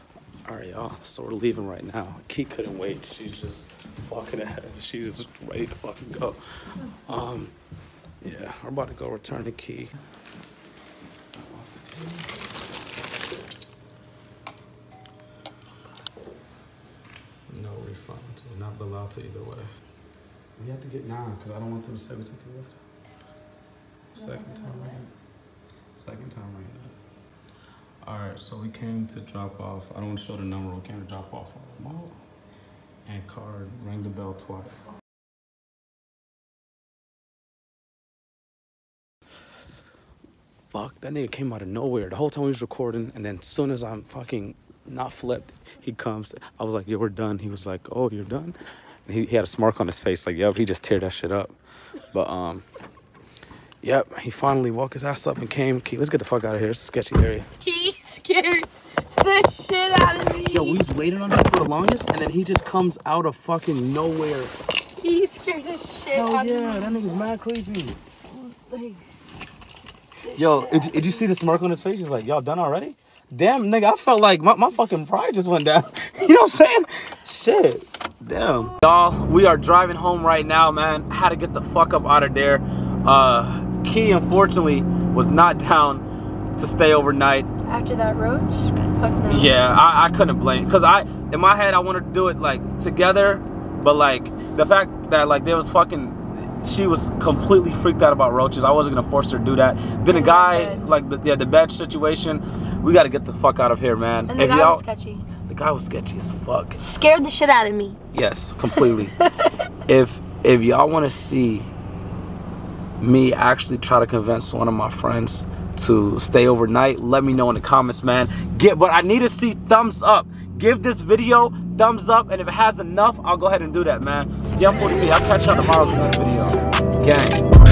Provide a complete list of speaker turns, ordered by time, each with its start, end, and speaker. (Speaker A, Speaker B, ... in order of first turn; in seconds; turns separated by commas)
Speaker A: 0.4-7.5, Speaker A: 8.2-9.9, Speaker A: 11.5-12.3, Speaker A: 17.5-19.7, Speaker A: 20.6-22.8, Speaker A: 24.1-25.1, Speaker B: 24.2-25.0, Speaker A: 25.9-27.0, Speaker A: 28.0-32.1, Speaker A: 33.0-34.8, Speaker A: 40.7-51.5, Speaker A: 52.1-52.6, Speaker A: 53.8-57.5, Speaker B: 57.6-60.8, Speaker A: 60.5-64.5, Speaker B: 65.0-67.2, Speaker A: 66.1-68.0, Speaker B: 68.3-69.0, Speaker B: 70.2-71.2, Speaker A: 70.3-86.0, Speaker A: 86.6-87.5, Speaker B: 87.7-89.5, Speaker A: 89.3-104.8, Speaker B: 100.1-100.8, Speaker B: 104.3-105.2, Speaker A: 105.4-106.8, Speaker B: 106.8-108.0, Speaker A: 108.1-109.1, Speaker A: 109.9-111.7, Speaker A: 113.0-127.4